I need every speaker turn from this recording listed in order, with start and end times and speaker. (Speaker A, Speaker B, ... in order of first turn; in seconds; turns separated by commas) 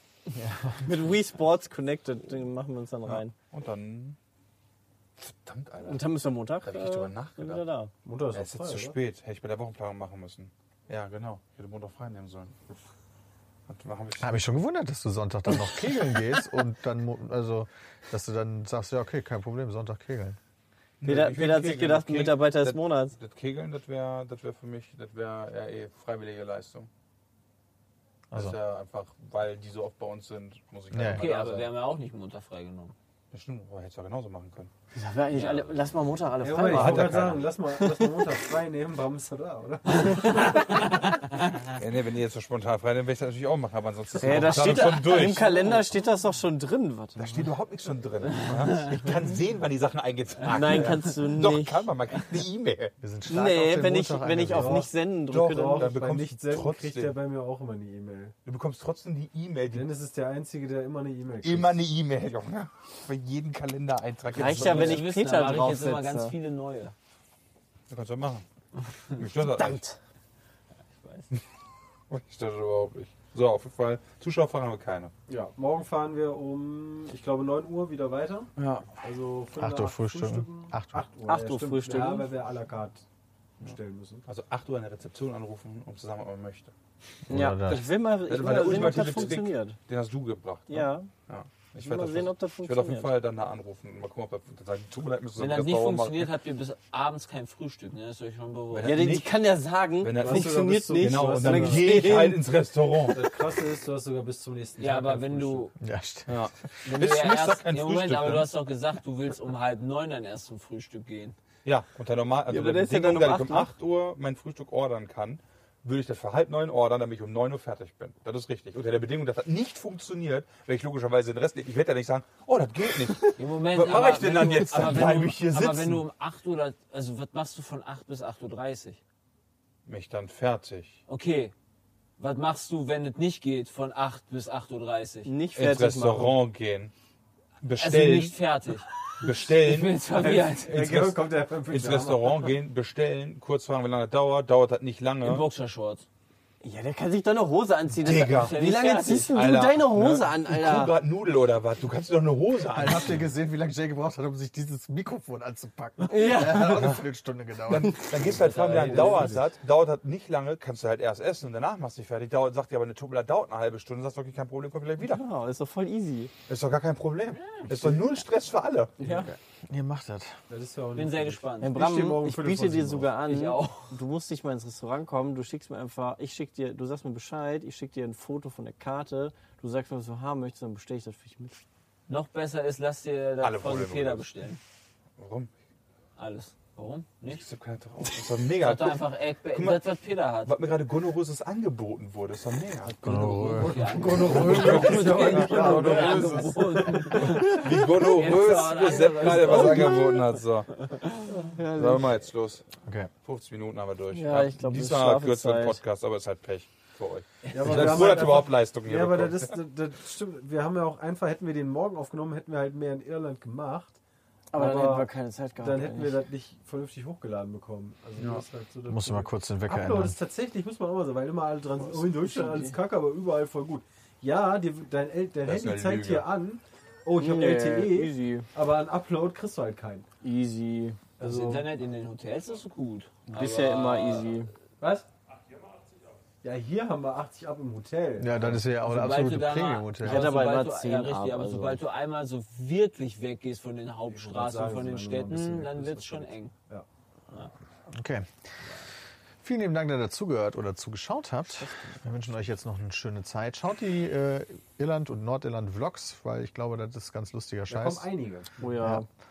Speaker A: 0.3-0.9, Speaker B: 0.8-3.3, Speaker C: 3.0-4.2, Speaker C: 5.2-7.7, Speaker B: 5.8-7.9, Speaker D: 8.0-9.0, Speaker C: 8.3-12.6, Speaker C: 13.7-14.4, Speaker A: 14.2-20.4, Speaker C: 21.0-26.9, Speaker B: 21.0-23.2, Speaker C: 28.3-31.7, Speaker A: 30.9-31.3, Speaker E: 31.1-33.0, Speaker C: 33.3-34.7, Speaker B: 35.0-38.1, Speaker E: 35.3-35.8, Speaker D: 36.4-41.0, Speaker C: 36.6-37.5, Speaker E: 40.1-41.7, Speaker C: 41.7-45.9, Speaker B: 44.2-47.3, Speaker C: 47.2-52.9, Speaker E: 48.4-48.9, Speaker B: 50.5-51.9, Speaker E: 50.5-50.9, Speaker A: 53.0-54.9, Speaker B: 53.3-56.0, Speaker D: 54.5-58.4, Speaker C: 55.3-57.2, Speaker C: 58.5-59.9, Speaker D: 59.7-61.9, Speaker C: 61.4-65.1, Speaker B: 64.3-66.3, Speaker E: 64.5-67.0, Speaker C: 67.9-68.5, Speaker C: 69.2-69.8, Speaker B: 69.5-70.0, Speaker E: 71.0-71.3, Speaker C: 72.1-75.1, Speaker D: 75.3-83.0, Speaker C: 78.6-78.9, Speaker A: 79.6-81.1, Speaker B: 81.3-82.3, Speaker D: 83.6-84.3, Speaker C: 84.3-86.7, Speaker A: 87.3-87.9, Speaker B: 87.3-89.8, Speaker C: 88.1-96.3, Speaker D: 88.5-89.3, Speaker B: 90.7-91.1, Speaker B: 91.8-93.1, Speaker E: 95.4-99.2, Speaker C: 98.7-99.3, Speaker B: 98.8-102.4, Speaker C: 100.0-103.4, Speaker D: 100.2-102.2, Speaker D: 103.1-105.7, Speaker E: 104.8-105.7, Speaker A: 105.8-106.5, Speaker C: 106.3-108.5, Speaker E: 106.8-111.4, Speaker C: 111.7-126.0, Speaker B: 112.5-113.7, Speaker E: 123.4-129.0, Speaker C: 129.9-131.0, Speaker E: 131.1-131.5, Speaker E: 132.2-135.3, Speaker B: 135.3-136.4, Speaker C: 135.5-136.9, Speaker C: 137.6-138.4, Speaker E: 137.8-140.8, Speaker C: 139.2-145.4, Speaker D: 140.2-142.5, Speaker E: 145.2-146.1, Speaker B: 146.6-151.0, Speaker C: 148.0-148.6, Speaker E: 148.0-149.4, Speaker C: 149.3-153.2, Speaker A: 152.7-158.2, Speaker B: 156.1-157.0, Speaker C: 157.7-165.2, Speaker E: 158.2-159.3, Speaker D: 158.5-159.4, Speaker B: 159.1-159.4, Speaker B: 165.0-166.3, Speaker C: 166.5-169.0, Speaker A: 169.3-170.4, Speaker D: 170.5-173.1, Speaker E: 170.9-171.7, Speaker B: 171.6-181.6, Speaker E: 173.2-173.9, Speaker E: 182.1-184.6, Speaker C: 183.4-184.3, Speaker C: 185.2-185.5, Speaker E: 186.2-187.4, Speaker C: 187.3-189.8, Speaker E: 188.5-190.6, Speaker C: 190.4-196.5, Speaker E: 193.0-200.1, Speaker A: 193.0-194.0, Speaker B: 194.2-197.7, Speaker D: 194.9-195.6, Speaker A: 196.0-196.5, Speaker C: 197.2-200.7, Speaker B: 199.4-199.9, Speaker E: 200.9-201.3, Speaker B: 201.3-202.1, Speaker C: 201.7-202.7, Speaker C: 203.2-209.6, Speaker B: 204.1-205.8, Speaker E: 207.5-208.0, Speaker D: 207.5-214.0, Speaker B: 214.5-216.2, Speaker D: 214.5-230.1, Speaker C: 218.2-218.4, Speaker A: 218.9-220.2, Speaker B: 221.8-222.8, Speaker C: 225.4-226.3, Speaker B: 227.2-228.5, Speaker B: 230.2-231.0, Speaker D: 231.2-231.7, Speaker E: 231.2-234.5, Speaker B: 233.3-234.5, Speaker D: 234.8-235.1, Speaker D: 236.4-238.9, Speaker A: 238.2-240.4, Speaker E: 238.9-246.5, Speaker B: 240.0-241.8, Speaker D: 244.1-246.9, Speaker A: 247.9-248.3, Speaker A: 249.4-258.1, Speaker D: 257.7-258.7, Speaker B: 258.6-259.1, Speaker A: 258.8-259.1